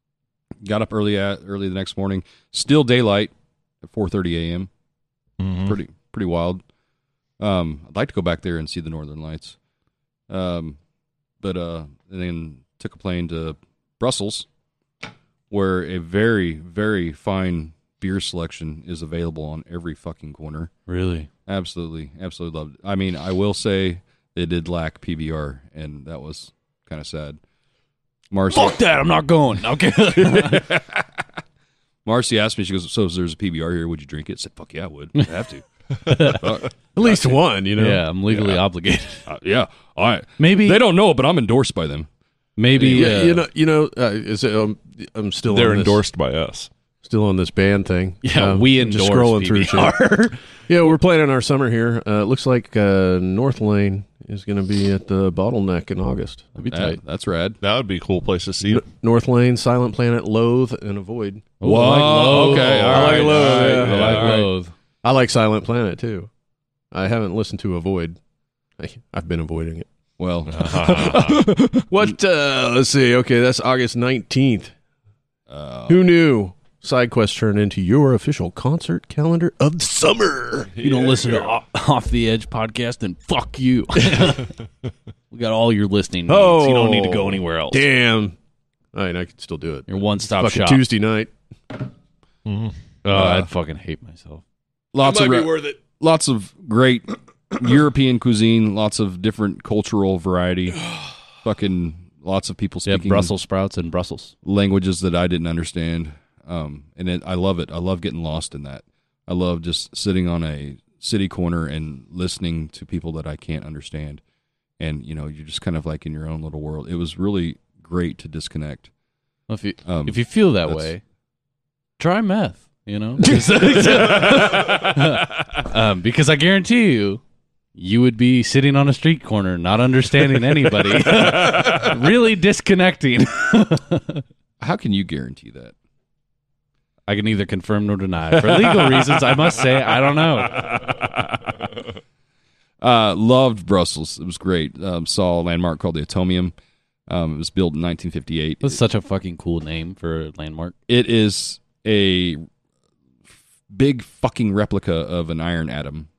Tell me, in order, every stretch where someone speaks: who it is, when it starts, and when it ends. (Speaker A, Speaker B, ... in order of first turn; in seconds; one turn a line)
Speaker A: 0.6-4.7
Speaker B: 5.4-5.8
Speaker A: 5.6-6.6
Speaker A: 7.4-9.6
Speaker A: 10.3-10.8
Speaker A: 11.4-14.5
Speaker A: 15.5-20.7
Speaker C: 20.9-21.3
Speaker A: 21.5-27.4
Speaker A: 28.3-28.8
Speaker C: 28.5-30.8
Speaker A: 30.2-31.0
Speaker A: 32.0-37.4
Speaker C: 36.0-36.5
Speaker D: 37.0-38.0
Speaker C: 37.8-39.2
Speaker A: 38.3-38.6
Speaker A: 39.3-42.1
Speaker C: 40.4-40.8
Speaker C: 42.6-43.4
Speaker A: 42.8-43.1
Speaker D: 42.8-46.0
Speaker B: 45.5-46.7
Speaker D: 47.0-50.0
Speaker C: 48.2-50.4
Speaker D: 50.7-56.5
Speaker C: 56.5-57.0
Speaker A: 56.7-57.6
Speaker B: 57.6-58.9
Speaker D: 58.7-64.5
Speaker C: 61.6-64.7
Speaker A: 61.6-64.5
Speaker B: 62.4-64.3
Speaker D: 65.0-66.3
Speaker D: 66.9-68.2
Speaker D: 68.8-69.8
Speaker A: 70.2-72.1
Speaker B: 70.5-71.4
Speaker D: 70.7-74.7
Speaker A: 75.5-76.1
Speaker D: 75.9-80.7
Speaker B: 80.8-81.4
Speaker C: 80.8-84.5
Speaker C: 85.3-87.8
Speaker D: 86.3-88.3
Speaker D: 88.9-91.3
Speaker C: 89.9-90.8
Speaker B: 92.5-92.7
Speaker C: 93.0-94.4
Speaker A: 93.1-93.5
Speaker A: 94.9-103.3
Speaker D: 95.0-95.8
Speaker C: 102.8-104.3
Speaker A: 104.4-114.2
Speaker A: 114.8-118.9
Speaker C: 119.5-121.0
Speaker A: 119.8-120.9
Speaker C: 122.0-127.2
Speaker C: 127.8-134.2
Speaker A: 134.6-135.7
Speaker C: 137.1-140.8
Speaker A: 140.7-141.2
Speaker A: 142.8-146.5
Speaker A: 147.1-148.8
Speaker C: 148.6-150.7
Speaker A: 150.9-152.4
Speaker A: 153.7-156.1